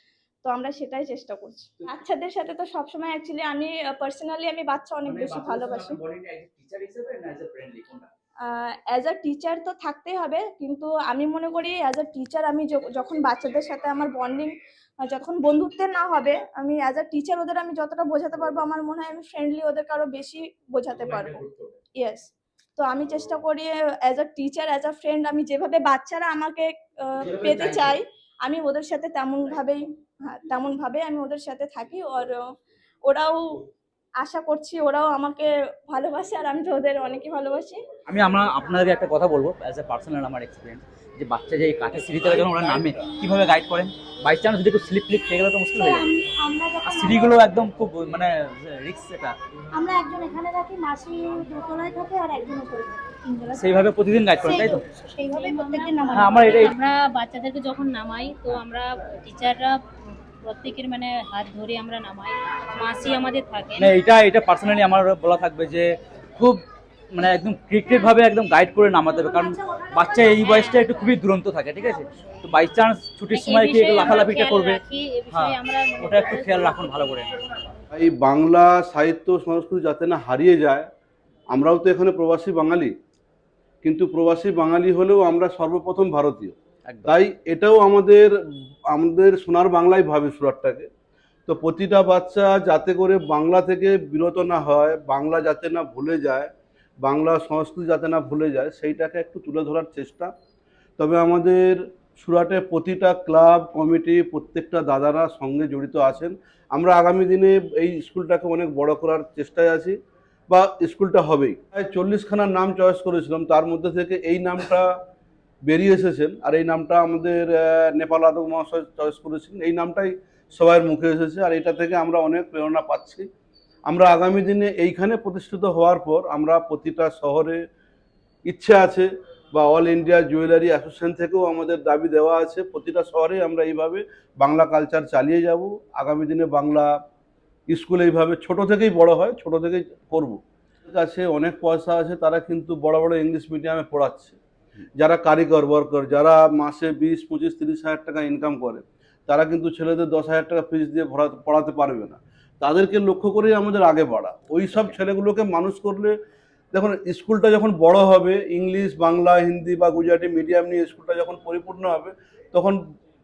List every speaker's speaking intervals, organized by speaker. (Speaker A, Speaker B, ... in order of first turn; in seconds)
Speaker A: 0.4-6.0, 8.5-21.4, 22.0-32.4, 33.0-33.4, 34.2-37.8
Speaker B: 5.0-8.1, 20.9-21.7, 27.2-28.0, 38.1-46.1, 46.8-49.4, 53.5-54.8, 56.1-56.8, 63.8-66.6, 67.1-74.8, 75.3-77.3, 86.8-87.1, 154.7-155.0
Speaker C: 45.8-47.4, 49.8-53.8, 54.4-56.7, 69.3-70.3
Speaker D: 55.2-63.9, 70.4-70.8, 73.3-77.2
Speaker E: 77.9-80.9, 81.5-82.9, 83.8-88.3, 88.9-90.9, 91.5-96.5, 97.0-100.3, 101.0-110.0, 110.5-114.9, 115.6-123.3, 123.9-127.6, 128.5-136.9, 137.7-144.4, 145.0-156.2, 156.7-162.8